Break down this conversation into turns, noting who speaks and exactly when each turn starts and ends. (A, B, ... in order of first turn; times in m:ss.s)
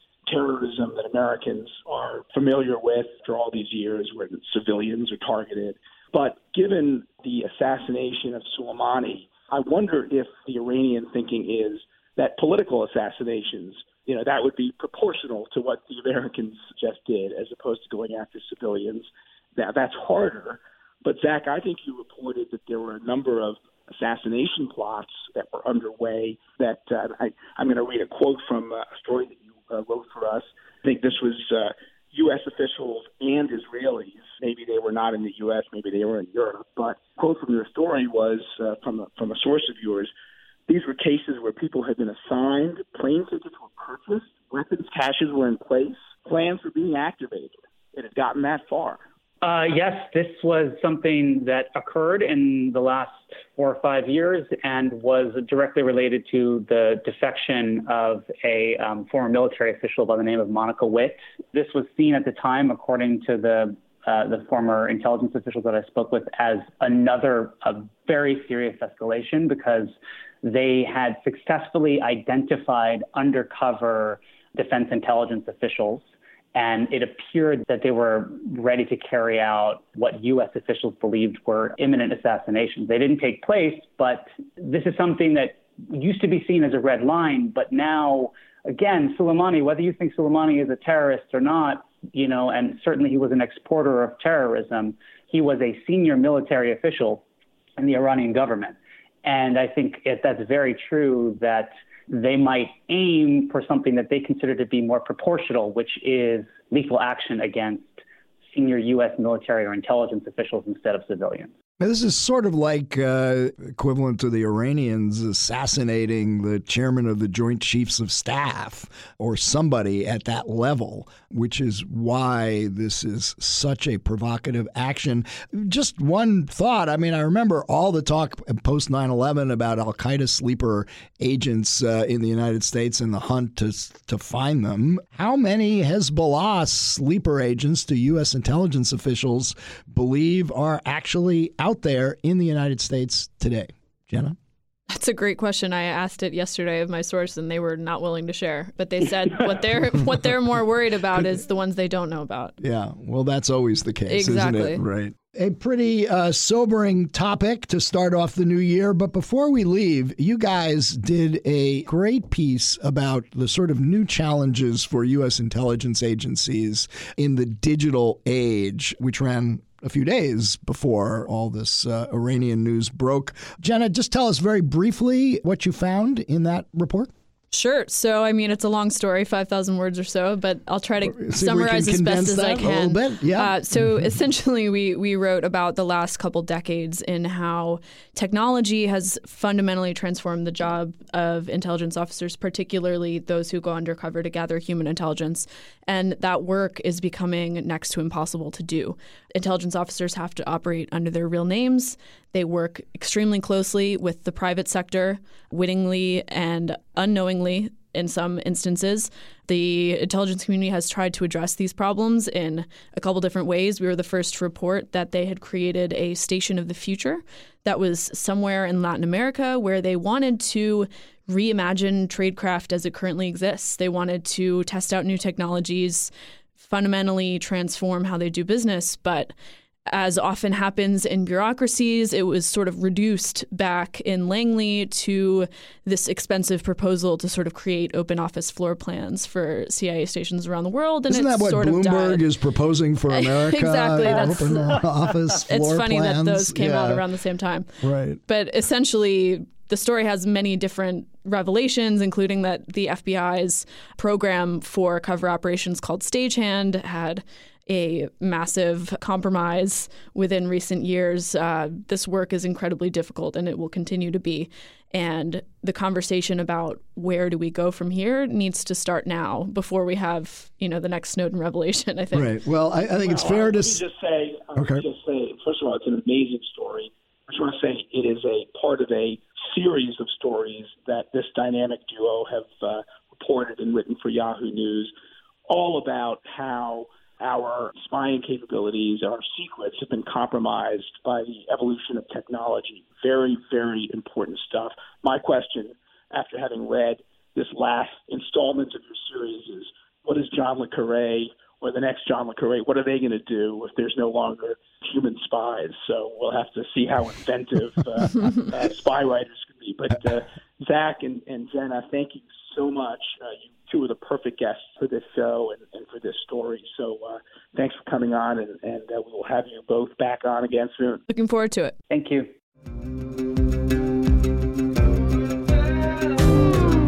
0:00.3-0:40.1 A
0:40.7-0:49.0 A
0:49.4-1:37.2 B
1:37.8-1:48.0 B
1:48.5-1:51.5 B
1:51.8-2:24.4 C
2:24.9-2:32.6 D
2:32.6-2:57.1 C
2:34.1-2:34.8 D
2:57.5-3:49.3 D
3:01.1-3:04.0 C
3:49.9-4:02.2 D
4:01.1-4:07.0 C
4:03.1-4:07.7 D
4:07.8-4:08.2 C
4:08.3-4:32.4 D
4:32.1-4:33.8 C
4:32.8-4:44.9 A
4:34.6-4:34.8 C
4:45.5-5:21.0 A
5:21.1-5:21.7 D
5:21.9-5:22.3 B